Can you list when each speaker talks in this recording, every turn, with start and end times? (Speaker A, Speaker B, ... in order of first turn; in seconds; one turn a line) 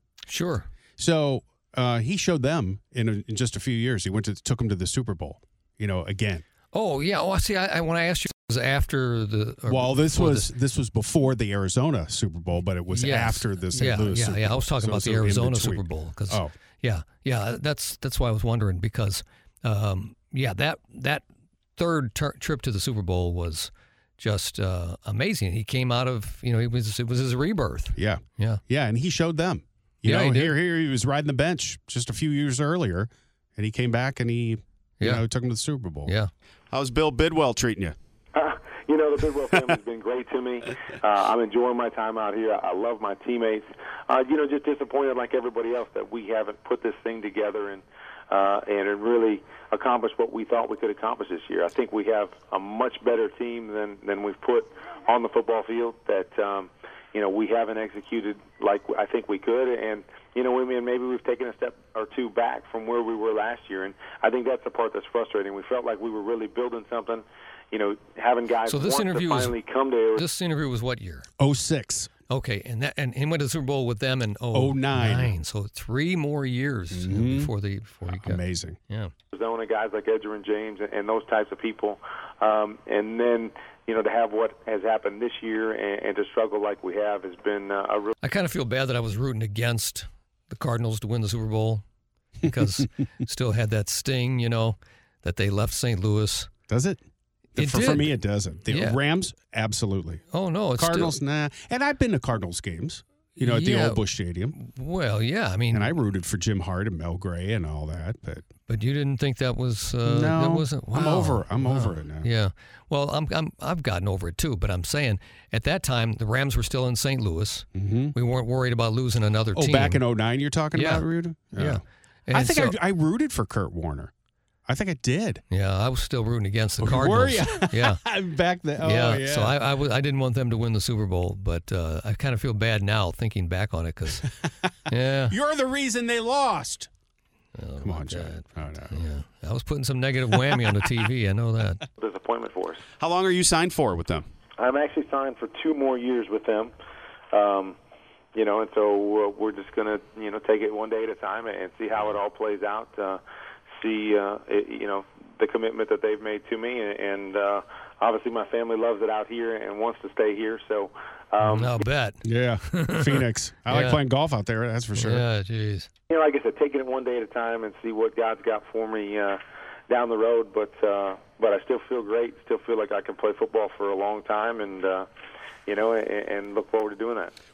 Speaker A: 0.3-0.7
Speaker B: 1.0-6.4
Speaker A: 6.7-10.5
Speaker B: 9.7-16.5
Speaker A: 12.9-21.2
Speaker A: 21.8-28.6
Speaker B: 28.0-36.1
Speaker A: 30.0-30.6
Speaker A: 35.0-35.2
Speaker C: 36.7-38.0
Speaker D: 38.3-70.2
Speaker A: 68.7-69.5
Speaker A: 70.2-71.3
Speaker B: 71.4-72.1
Speaker A: 72.3-79.1
Speaker B: 74.5-75.3
Speaker B: 76.9-77.5
Speaker B: 78.1-78.8
Speaker D: 79.3-88.2
Speaker A: 88.2-91.8
Speaker A: 92.4-96.5
Speaker B: 96.7-97.0
Speaker B: 97.6-100.2
Speaker A: 97.6-99.0
Speaker A: 100.3-101.2
Speaker B: 100.8-104.6
Speaker A: 103.4-104.0
Speaker A: 104.5-106.0
Speaker B: 105.7-108.5
Speaker A: 108.7-120.0
Speaker B: 110.0-112.3
Speaker B: 117.8-118.2
Speaker B: 119.5-124.1
Speaker A: 120.7-122.8
Speaker B: 124.7-125.4
Speaker A: 125.5-128.0
Speaker B: 126.8-129.6
Speaker A: 128.8-134.3
Speaker A: 134.9-135.3
Speaker B: 135.3-136.9
Speaker A: 137.6-141.9
Speaker B: 137.8-139.0
Speaker D: 142.0-142.8
Speaker C: 143.0-144.2
Speaker D: 144.6-146.7
Speaker D: 147.3-147.8
Speaker D: 148.3-153.2
Speaker D: 153.8-161.8
Speaker A: 161.4-164.0
Speaker B: 162.2-165.2
Speaker A: 164.9-165.9
Speaker D: 166.1-175.1
Speaker D: 175.7-177.3